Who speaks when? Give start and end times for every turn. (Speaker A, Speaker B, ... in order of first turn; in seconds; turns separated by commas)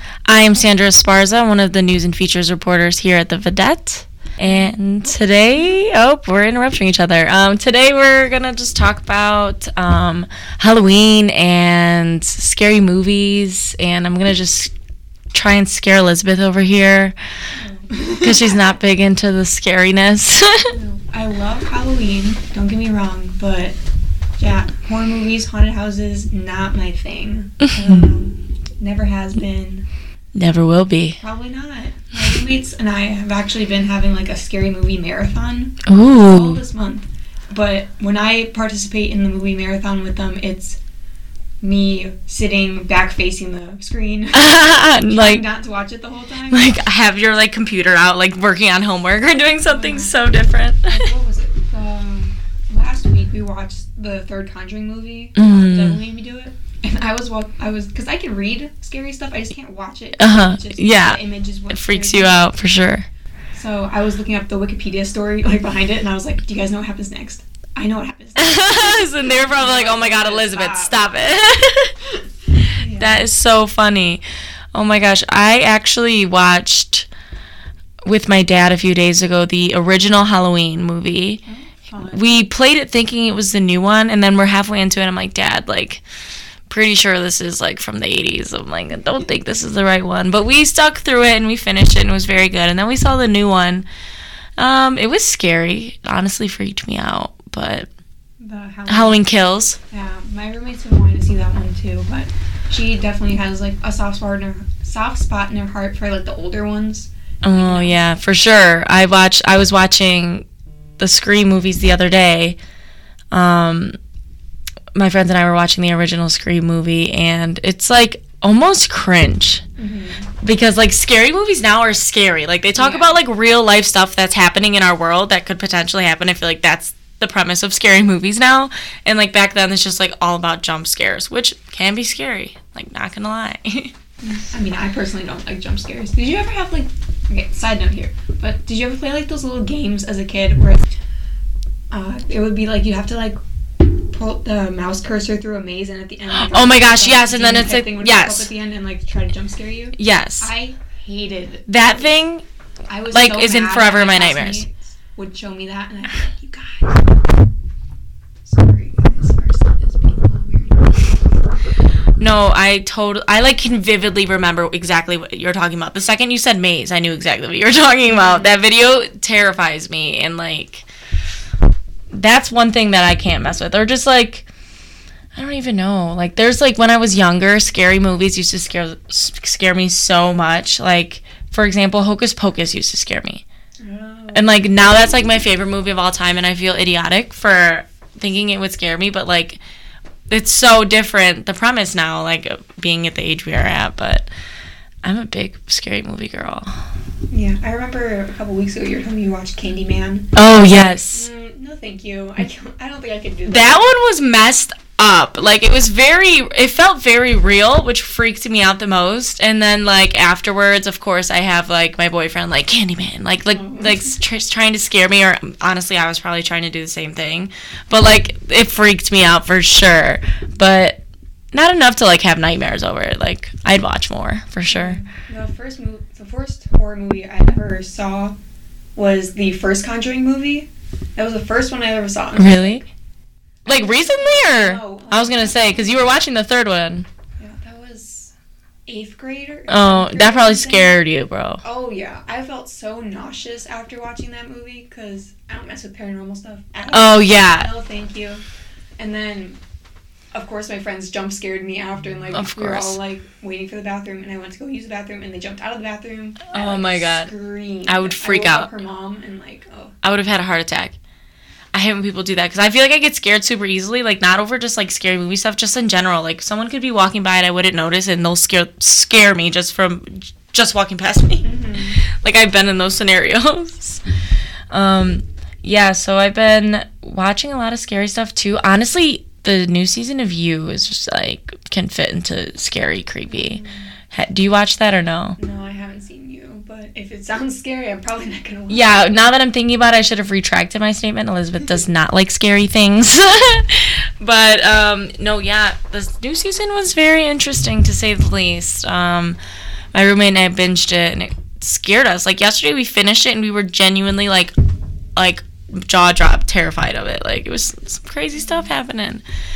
Speaker A: 0.3-14.7, Speaker B: 4.5-5.8, Speaker A: 15.3-17.1, Speaker B: 17.6-18.7, Speaker A: 18.2-20.7, Speaker B: 20.7-23.8, Speaker B: 24.4-29.9, Speaker A: 30.4-31.2, Speaker B: 31.2-40.8, Speaker A: 35.9-36.6, Speaker B: 41.6-46.8, Speaker A: 44.3-45.4, Speaker A: 46.5-51.0, Speaker B: 49.6-50.2, Speaker B: 50.9-62.4, Speaker A: 55.4-56.0, Speaker A: 60.2-61.2, Speaker A: 61.7-63.1, Speaker B: 63.5-71.2, Speaker A: 68.4-72.0, Speaker A: 72.7-74.2, Speaker B: 72.7-73.2, Speaker A: 74.7-77.1, Speaker A: 78.0-81.4, Speaker B: 81.5-82.2, Speaker A: 82.1-86.0, Speaker A: 86.7-93.9, Speaker A: 94.6-97.9, Speaker B: 98.4-99.3, Speaker A: 98.9-99.8, Speaker B: 99.9-108.0, Speaker A: 107.4-110.5, Speaker A: 111.0-112.6, Speaker A: 113.3-113.9, Speaker A: 115.0-119.7, Speaker B: 119.8-120.3, Speaker A: 120.4-133.9, Speaker B: 122.8-123.1, Speaker B: 134.2-140.9, Speaker B: 141.9-151.7, Speaker A: 146.3-148.5, Speaker A: 150.0-150.5, Speaker A: 151.7-152.4, Speaker B: 152.9-157.1, Speaker A: 153.1-154.6, Speaker B: 158.5-161.1, Speaker A: 162.2-170.9, Speaker B: 168.1-168.6, Speaker A: 172.1-174.5, Speaker A: 175.3-183.4, Speaker B: 183.8-184.8, Speaker A: 184.3-189.6, Speaker A: 190.3-194.3, Speaker A: 195.0-196.8, Speaker B: 197.3-203.9, Speaker A: 200.3-201.3, Speaker A: 203.5-221.0, Speaker B: 213.5-214.2, Speaker A: 221.5-225.0, Speaker B: 224.7-228.3, Speaker B: 229.0-232.8, Speaker A: 232.4-232.8, Speaker A: 233.7-237.1, Speaker B: 233.7-236.2, Speaker B: 237.4-238.3, Speaker B: 238.9-241.0, Speaker A: 239.7-241.6, Speaker B: 241.6-248.4, Speaker A: 246.9-247.7, Speaker B: 249.0-249.6, Speaker B: 250.3-259.9, Speaker A: 252.3-253.0, Speaker A: 256.5-257.3, Speaker A: 257.9-258.7, Speaker A: 260.0-261.0, Speaker A: 261.7-271.5, Speaker B: 271.4-272.0, Speaker A: 272.1-274.0, Speaker A: 274.7-285.4, Speaker B: 283.3-283.9, Speaker B: 285.4-289.2, Speaker A: 288.7-299.4, Speaker A: 299.9-304.5, Speaker A: 305.2-309.2, Speaker B: 308.3-308.7